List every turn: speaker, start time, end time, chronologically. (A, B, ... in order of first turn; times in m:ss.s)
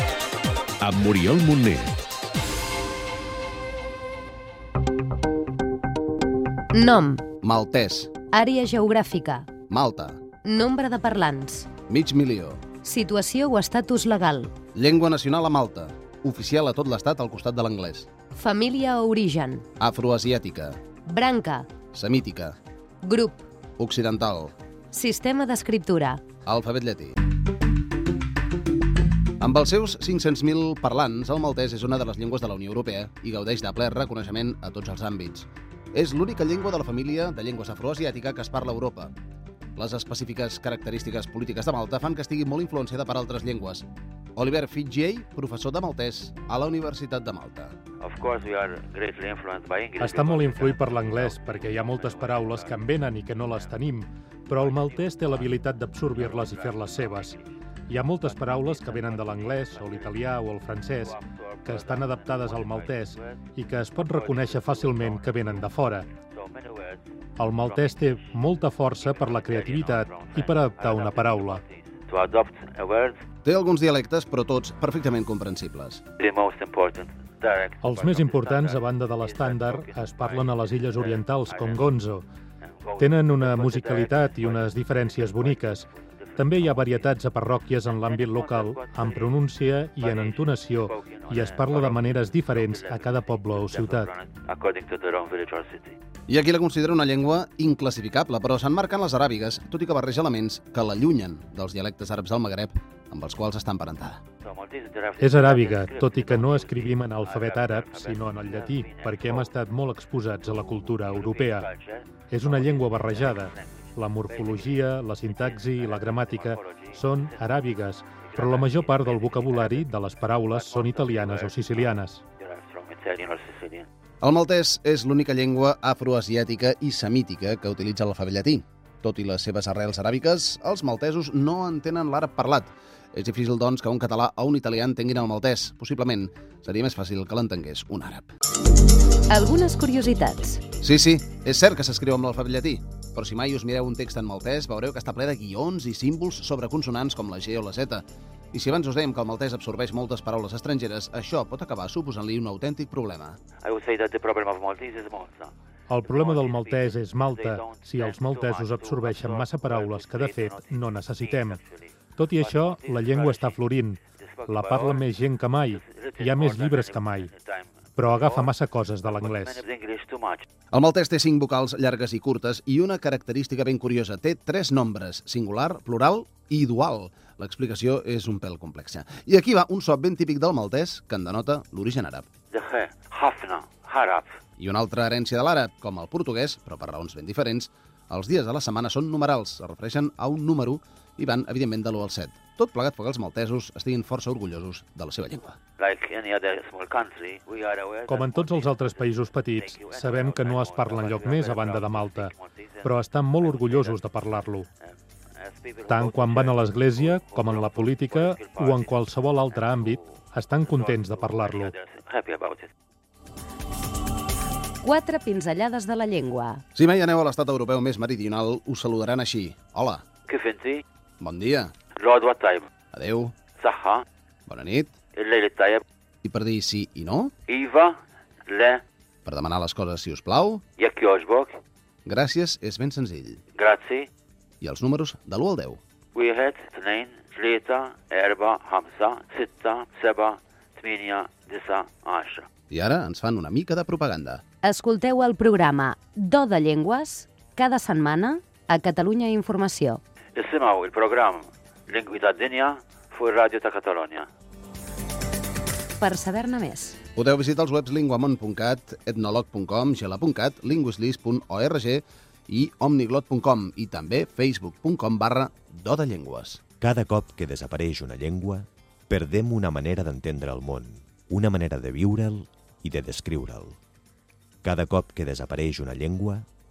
0:00.8-0:02.0 A
0:06.7-0:07.2 B
0:07.4-0:08.1 C
0:08.3-0:09.5 B
0:09.7-0:10.2 C
0:10.4-0:11.7 B
0:11.9-0:12.6 C
0:12.8-0:14.5 B
0:14.8-0:18.1 C
0:18.4-0:19.6 B
0:19.8-0:20.8 C
0:21.1-0:21.7 B
0:21.9-0:22.6 C
0:23.0-0:23.5 B
0:23.8-0:24.5 C
0:24.9-0:26.2 B
0:26.4-0:27.2 C
0:29.4-0:39.1 C
0:39.8-0:47.8 C
0:48.0-0:53.8 D
0:50.0-0:57.4 E
0:54.5-0:57.5 D
0:57.9-1:06.1 E
0:58.2-1:03.4 D
1:04.0-1:05.7 D
1:06.3-1:13.2 D
1:07.4-1:11.6 E
1:13.4-1:16.0 C
1:16.2-1:21.9 D
1:17.8-1:22.2 E
1:22.6-1:29.4 D
1:23.0-1:34.1 E
1:30.0-1:36.0 D
1:36.3-1:44.2 C
1:44.4-1:49.5 D
1:45.2-1:51.7 E
1:50.6-2:03.9 D
1:52.3-2:02.2 E
2:04.2-2:18.3 C
2:19.3-2:20.6 B
2:20.8-2:33.4 C
2:33.6-2:35.5 D
2:35.9-2:41.6 E
2:36.0-2:43.7 D
2:42.2-2:47.3 E
2:44.2-2:45.2 D
2:45.7-2:48.5 D
2:48.0-2:49.6 E
2:49.0-2:50.4 D
2:50.7-3:02.3 C
3:02.5-3:04.3 D
3:04.6-3:15.6 C
3:15.8-3:24.0 D
3:18.1-3:22.3 E
3:22.8-3:24.7 E
3:24.8-3:32.7 D
3:25.9-3:31.7 E
3:34.8-3:36.6 B
3:36.8-3:40.0 C
3:40.3-3:40.8 D
3:41.2-3:41.7 C
3:42.0-3:42.7 D
3:42.9-3:43.3 C
3:43.6-3:44.0 D
3:44.5-3:44.9 C
3:45.2-3:45.8 D
3:46.2-3:47.3 C
3:47.5-3:48.0 D
3:48.5-3:48.8 D
3:49.2-3:50.6 C
3:50.8-3:51.6 D
3:52.0-3:53.4 C
3:53.6-3:54.1 D
3:54.6-3:55.8 C
3:56.2-4:02.5 D
4:02.7-4:04.4 C
4:04.6-4:10.0 B
4:10.4-4:14.3 D
4:16.0-4:17.0 B
4:17.2-4:26.6 C
4:26.8-4:33.8 A
4:34.6-4:36.5 A